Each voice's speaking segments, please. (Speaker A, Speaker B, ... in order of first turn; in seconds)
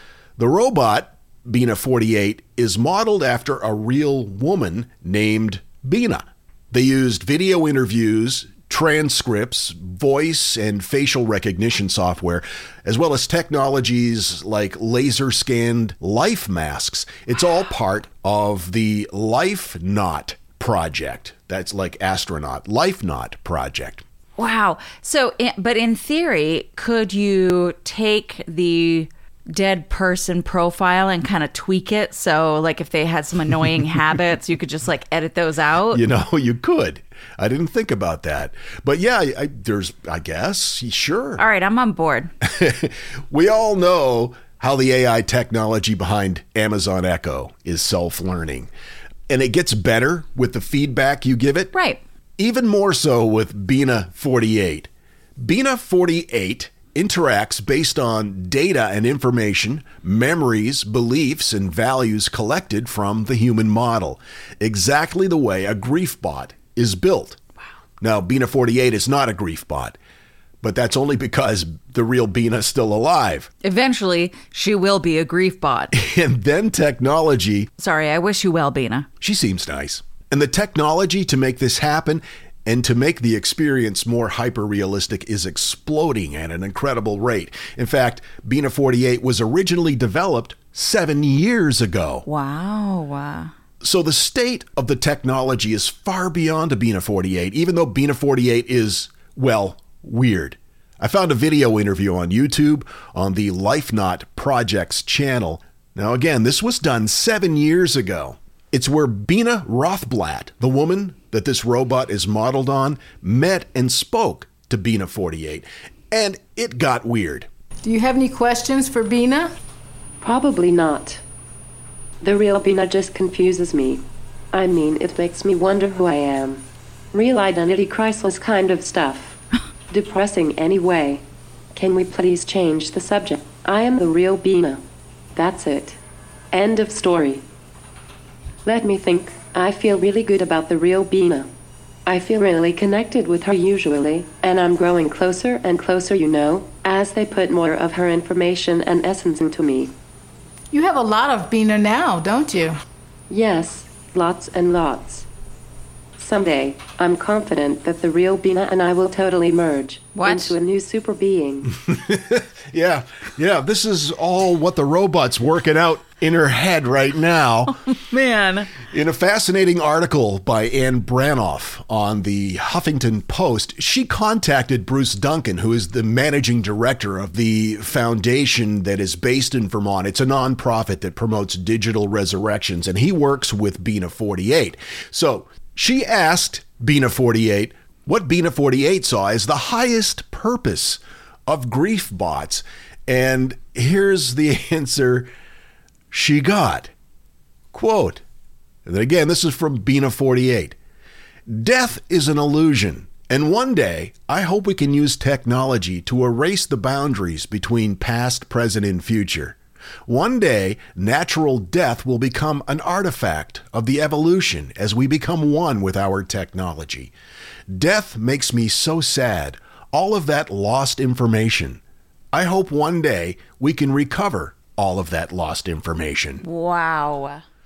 Speaker A: 0.4-24.0, 35.9-41.4, 42.4-48.7, 49.3-51.7, 52.4-67.4, 68.0-70.0, 70.6-73.5, 75.9-77.7, 79.2-92.2, 93.8-117.5, 161.8-167.8, 168.8-195.3, 196.1-196.9, 197.7-198.2, 198.8-200.8, 201.5-217.1, 217.7-221.8, 222.3-226.4
Speaker B: 24.4-36.0, 41.4-42.3, 51.7-52.0, 73.6-75.9, 77.8-79.1, 92.2-93.5, 167.8-168.7, 226.4-227.4
Speaker C: 117.8-119.5, 150.7-152.8, 160.2-160.5
Speaker D: 120.2-121.2, 122.2-129.4, 129.9-131.2, 131.7-134.8, 135.3-136.0, 136.5-137.4, 138.6-141.5, 142.1-149.9, 153.3-155.2, 156.2-161.7